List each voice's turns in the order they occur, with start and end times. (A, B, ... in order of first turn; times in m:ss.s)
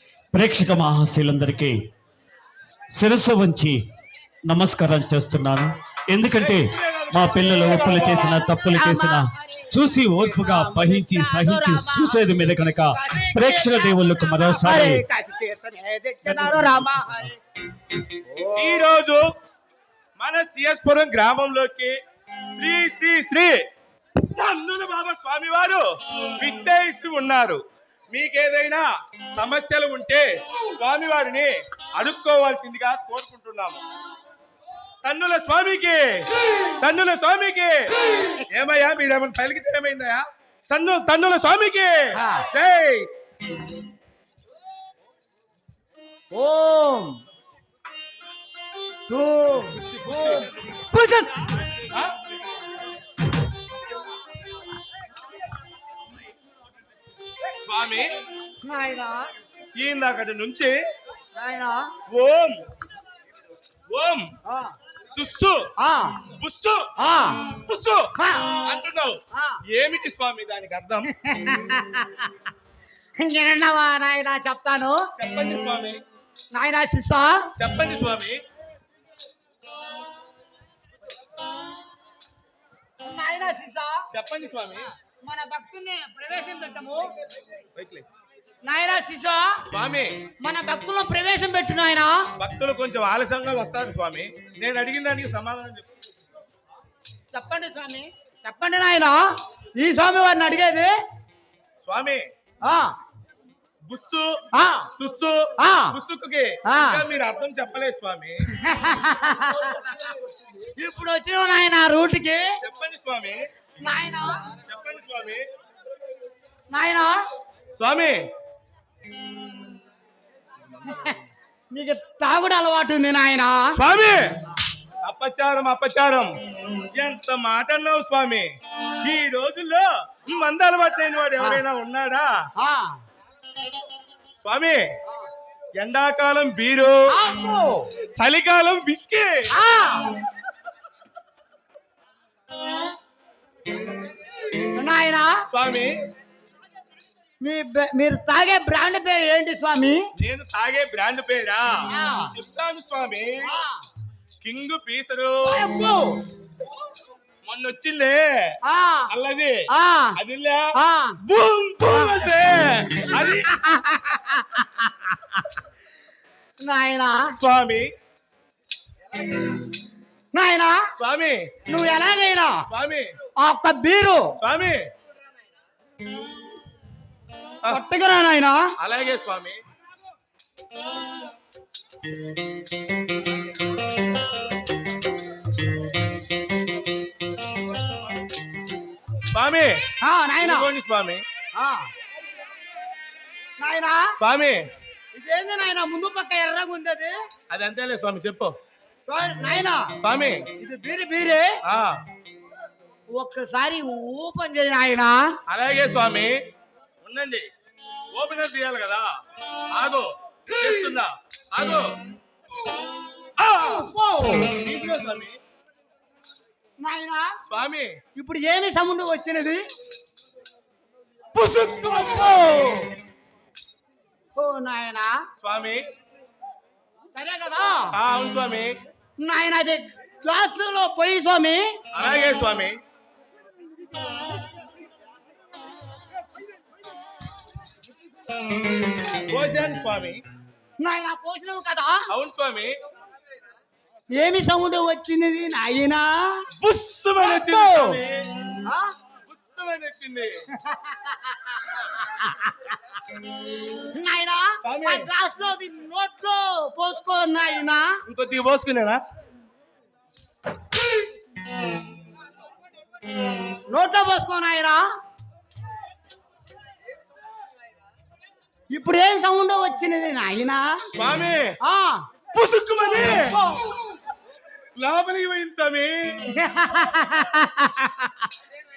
0:00.3-0:01.8 A
0:03.0-0:03.8 A
0:04.5-0:15.0 A
0:06.3-0:08.3 B
0:08.5-0:12.2 C
0:12.9-0:17.4 C
0:18.6-0:19.2 B
0:20.2-0:22.0 B
0:22.6-0:23.6 B
0:24.2-0:25.8 B
0:26.4-0:33.8 B
0:35.0-0:36.3 B
0:36.8-0:37.9 B
0:38.5-0:43.1 B
0:42.2-0:42.4 C
0:46.3-0:47.2 C
0:49.1-0:51.4 C
0:49.8-0:50.4 B
0:57.6-0:58.1 B
0:58.6-0:59.3 C
0:59.8-1:00.7 B
1:01.4-1:01.9 C
1:02.1-1:02.6 B
1:03.9-1:04.3 B
1:04.5-1:04.7 C
1:05.2-1:05.7 B
1:05.8-1:06.2 C
1:06.4-1:06.9 B
1:07.0-1:07.5 C
1:07.6-1:08.1 B
1:08.2-1:08.6 C
1:08.6-1:09.2 B
1:09.3-1:09.6 C
1:09.7-1:11.1 B
1:11.2-1:12.3 C
1:13.2-1:15.0 C
1:15.2-1:16.0 B
1:16.5-1:17.5 C
1:17.6-1:18.4 B
1:23.0-1:24.0 C
1:24.1-1:24.9 B
1:25.2-1:27.1 C
1:27.8-1:28.0 B
1:28.6-1:29.6 C
1:29.7-1:30.1 B
1:30.4-1:32.3 C
1:32.4-1:35.9 B
1:37.3-1:40.9 C
1:41.8-1:42.3 B
1:42.7-1:42.9 C
1:43.9-1:44.4 B
1:44.6-1:44.9 C
1:45.0-1:48.4 B
1:45.6-1:46.0 C
1:46.7-1:47.0 C
1:48.6-1:49.9 C
1:50.8-1:52.5 C
1:52.6-1:53.4 B
1:53.8-1:54.4 C
1:54.6-1:55.4 B
1:56.7-1:57.2 C
1:57.8-1:58.3 B
2:00.8-2:01.2 C
2:01.7-2:03.7 C
2:03.7-2:04.2 B
2:05.0-2:06.3 B
2:06.9-2:12.3 B
2:12.6-2:13.0 C
2:14.4-2:14.9 B
2:15.8-2:17.0 B
2:17.1-2:17.9 C
2:18.2-2:19.5 B
2:19.5-2:20.1 C
2:24.8-2:25.4 C
2:25.5-2:25.9 B
2:27.4-2:30.1 C
2:30.2-2:31.7 B
2:31.9-2:32.3 C
2:32.3-2:33.5 B
2:33.4-2:33.8 C
2:34.4-2:35.4 B
2:35.4-2:36.2 C
2:37.5-2:38.2 B
2:38.7-2:39.1 C
2:39.1-2:39.6 B
2:39.7-2:40.2 C
2:40.2-2:40.7 B
2:40.8-2:41.2 C
2:41.2-2:43.5 B
2:43.4-2:45.4 C
2:46.6-2:47.3 C
2:47.4-2:47.9 B
2:50.3-2:50.8 C
2:51.0-2:51.5 B
2:51.7-2:52.6 C
2:52.7-2:53.1 B
2:53.4-2:54.3 C
2:54.4-2:54.9 B
2:57.7-2:58.6 C
2:58.8-2:59.6 B
3:09.3-3:09.8 B
3:10.0-3:10.7 C
3:10.4-3:11.2 B
3:11.6-3:11.9 C
3:13.6-3:14.1 C
3:14.2-3:14.7 B
3:15.2-3:17.2 C
3:17.5-3:18.5 B
3:19.1-3:19.9 C
3:20.0-3:20.5 B
3:20.6-3:21.5 C
3:23.2-3:25.2 C
3:25.5-3:26.4 B
3:27.0-3:27.5 B
3:28.1-3:29.1 B
3:29.7-3:31.9 B
3:33.4-3:33.9 B
3:33.6-3:34.5 C
3:34.5-3:35.4 B
3:36.8-3:37.3 C
3:37.5-3:38.0 B
3:38.2-3:39.6 C
3:41.4-3:42.9 C
3:44.4-3:45.2 C
3:45.4-3:45.8 B
3:47.2-3:47.9 C
3:47.9-3:48.8 B
3:49.2-3:51.8 C
3:51.9-3:52.8 B
3:59.3-4:00.2 B
4:00.8-4:02.1 C
4:02.1-4:02.8 B
4:04.2-4:06.4 C
4:06.6-4:08.3 B
4:07.2-4:08.0 C
4:08.7-4:08.9 C
4:09.3-4:10.4 B
4:10.6-4:12.5 C
4:13.9-4:17.9 C
4:14.6-4:15.1 B
4:18.1-4:19.0 B
4:23.7-4:24.9 C
4:28.7-4:30.8 C
4:31.0-4:31.6 B
4:31.7-4:32.0 C
4:32.3-4:33.4 B
4:32.9-4:33.7 C
4:34.8-4:36.2 B
4:36.3-4:38.3 C